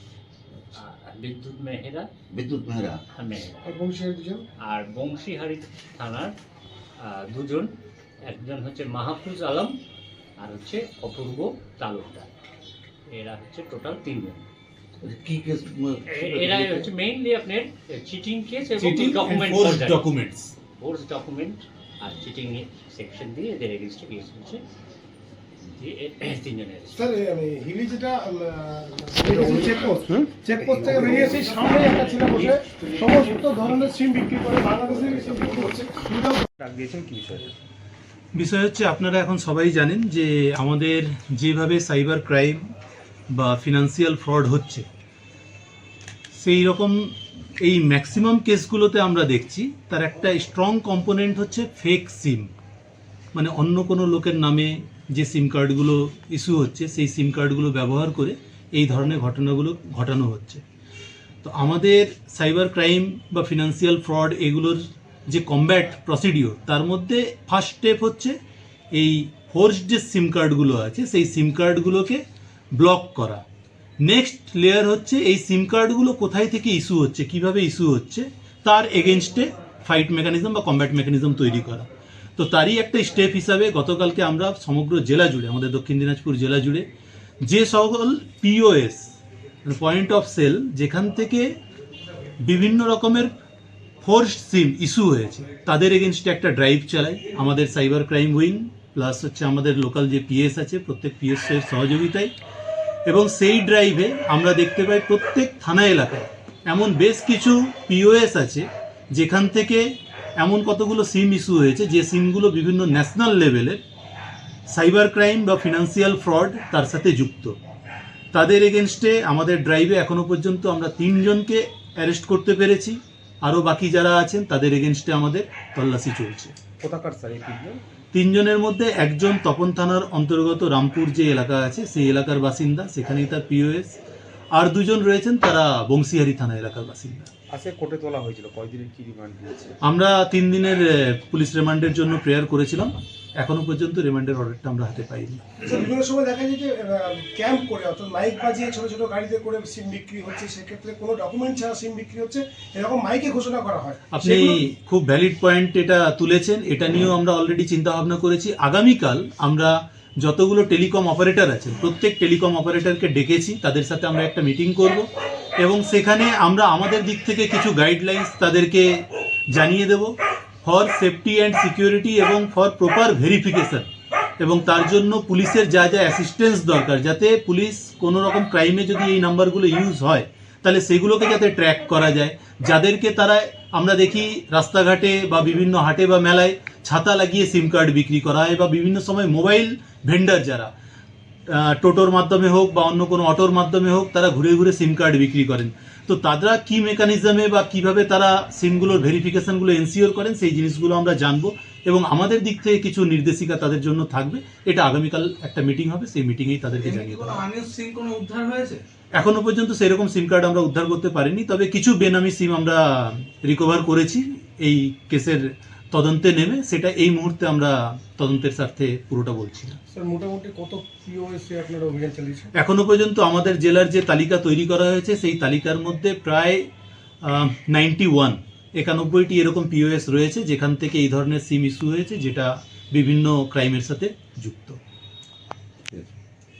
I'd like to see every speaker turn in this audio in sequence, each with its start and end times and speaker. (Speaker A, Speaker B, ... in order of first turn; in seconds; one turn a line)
Speaker A: 0.8-2.1
Speaker B: 2.4-3.0
Speaker A: 3.1-3.8
Speaker C: 3.6-4.4
Speaker A: 4.6-6.3
Speaker A: 7.0-7.7
Speaker A: 8.2-9.8
Speaker A: 10.4-12.3
Speaker A: 13.1-14.5
Speaker B: 15.0-16.9
Speaker A: 16.1-20.0
Speaker D: 18.8-20.5
Speaker A: 20.8-24.6
Speaker A: 25.8-27.0
Speaker C: 26.9-36.4
Speaker E: 29.3-29.7
Speaker E: 30.6-31.5
Speaker A: 31.4-32.5
Speaker E: 34.8-35.9
Speaker E: 36.6-37.5
Speaker D: 38.3-42.6
Speaker D: 43.3-44.8
Speaker D: 46.4-52.5
Speaker D: 53.3-60.6
Speaker D: 61.4-68.3
Speaker D: 68.9-72.2
Speaker D: 72.7-73.4
Speaker D: 74.0-81.8
Speaker D: 82.4-86.9
Speaker D: 87.4-89.1
Speaker D: 89.6-91.5
Speaker D: 92.4-93.3
Speaker D: 94.0-102.3
Speaker D: 103.1-109.8
Speaker D: 110.4-113.8
Speaker D: 114.7-117.5
Speaker D: 118.3-126.5
Speaker E: 126.8-127.8
Speaker D: 128.1-134.0
Speaker D: 134.5-137.3
Speaker E: 137.5-139.8
Speaker D: 139.8-145.4
Speaker C: 145.6-154.6
Speaker D: 154.1-165.1
Speaker D: 165.6-170.1
Speaker D: 170.6-190.7
Speaker D: 191.5-207.4
Speaker F: 206.8-208.8
Speaker D: 209.2-219.8
Speaker C: 219.9-222.5
Speaker D: 222.6-226.7
Speaker D: 227.2-234.8